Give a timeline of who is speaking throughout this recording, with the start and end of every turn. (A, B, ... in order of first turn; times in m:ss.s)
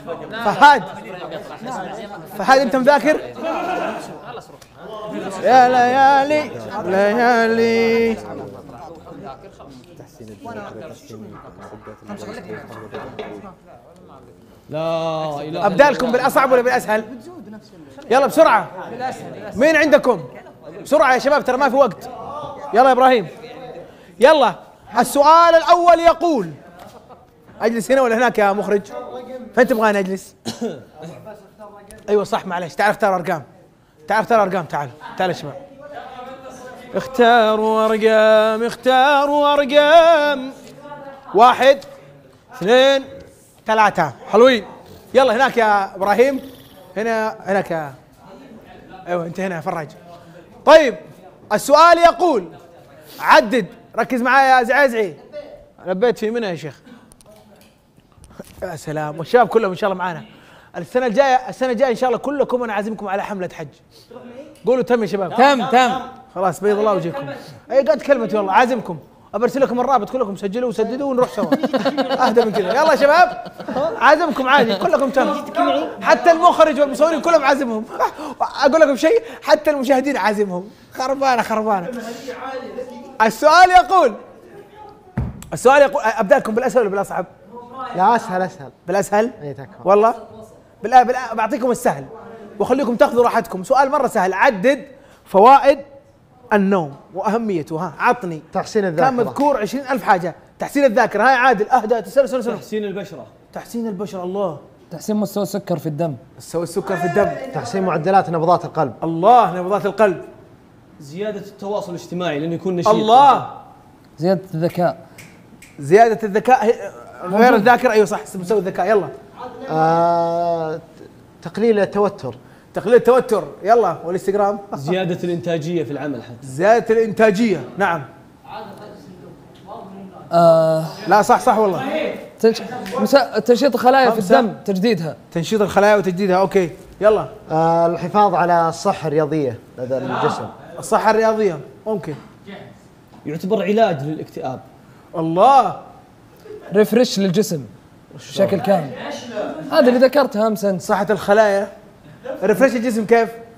0:00.4-0:00.9 A
0:02.3-0:03.2 A
0:05.4-0:08.2 A
0:14.7-0:16.3 B
0:15.6-0:17.1 A
0:18.1-0:18.7 A
0:19.5-0:20.3 A
0:20.8-0:22.1 A
0:22.7-0:23.3 A
0:24.2-0:26.6 A
0:27.6-0:28.9 A
0:29.5-0:30.3 A
0:32.1-0:33.4 A
0:34.0-0:35.6 A
0:36.9-0:40.5 A
0:41.3-0:41.8 A
0:42.6-0:43.1 A
0:43.6-0:48.0 A
0:49.0-0:50.0 A
0:50.6-0:52.5 A
0:53.2-0:55.2 A
0:55.8-0:56.8 A
0:58.6-1:03.8 A
1:04.6-1:21.9 A
1:23.2-1:24.2 A
1:25.5-1:27.3 A
1:27.9-1:28.7 C
1:28.8-1:30.2 A
1:29.4-1:29.9 C
1:30.8-1:35.8 A
1:36.5-1:38.4 A
1:38.5-1:39.4 C
1:39.0-1:42.6 A
1:42.4-1:43.3 B
1:43.5-1:44.6 A
1:44.9-1:46.2 D
1:46.4-1:47.4 A
1:47.5-1:49.0 C
1:49.0-1:50.2 A
1:51.0-1:53.4 B
1:52.8-1:53.5 A
1:54.2-1:55.0 D
1:55.8-1:59.1 A
1:57.3-1:57.7 D
1:59.6-2:02.4 C
2:02.7-2:04.9 A
2:04.7-2:06.5 B
2:06.4-2:08.1 A
2:10.3-2:11.0 D
2:11.0-2:11.8 A
2:12.4-2:15.2 D
2:14.0-2:14.5 A
2:15.3-2:17.3 A
2:17.5-2:20.5 C
2:20.8-2:22.2 A
2:23.2-2:24.6 B
2:25.1-2:25.8 A
2:26.7-2:27.7 D
2:28.3-2:29.0 D
2:29.6-2:30.8 D
2:30.8-2:31.7 A
2:32.4-2:33.4 A